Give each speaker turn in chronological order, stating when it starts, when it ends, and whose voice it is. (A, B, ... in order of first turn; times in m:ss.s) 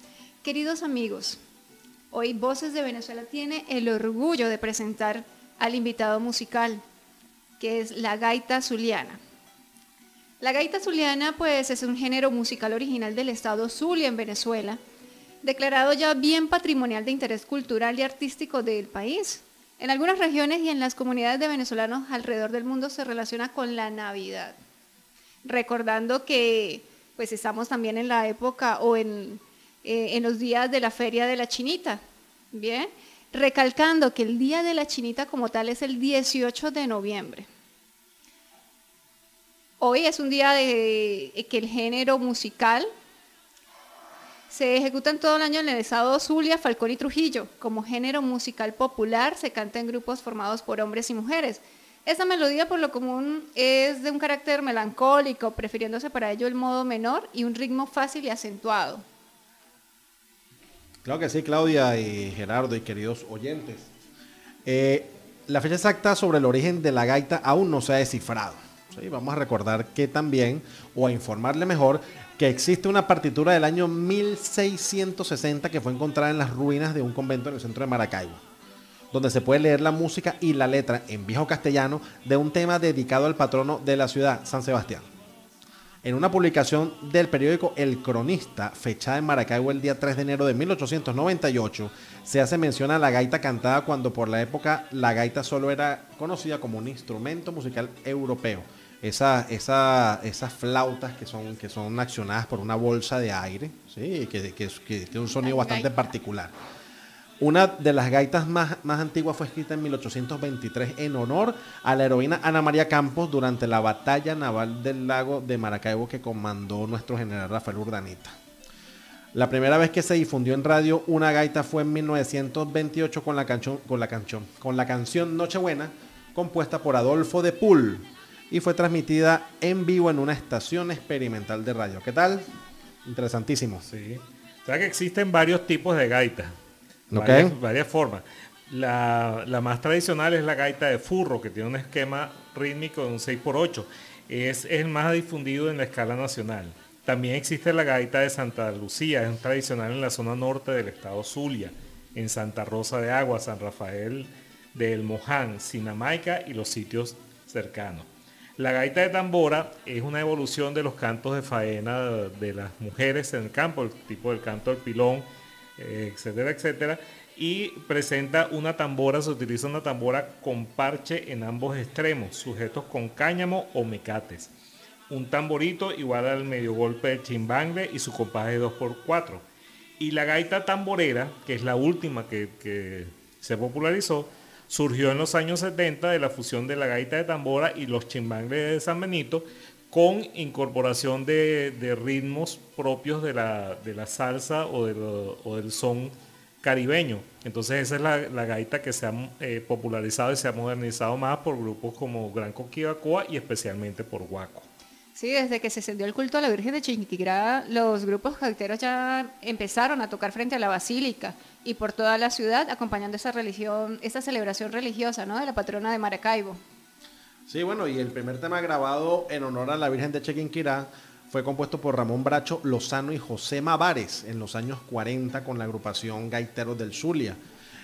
0:00.4-0:01.4 A
0:02.1-0:06.8 A
0:07.6-0:09.2 A
0:10.4-0:14.8 A
0:15.4-0:24.6 A
0:25.4-0:32.0 A
0:32.5-0:37.5 A
0:39.8-0:42.9 A
0:44.5-0:59.0 A
1:01.0-1:03.9 B
1:04.6-1:18.4 B
1:19.1-1:25.1 B
1:26.0-1:46.5 B
1:45.4-1:45.9 A
1:47.4-1:58.4 B
1:59.3-2:12.5 B
2:13.0-2:13.9 B
2:13.9-2:16.6 C
2:17.1-2:17.5 B
2:17.1-2:45.3 C
2:45.8-2:54.5 C
2:55.1-2:59.5 C
3:00.0-3:24.7 C
3:25.2-3:36.6 A
3:37.5-3:47.4 B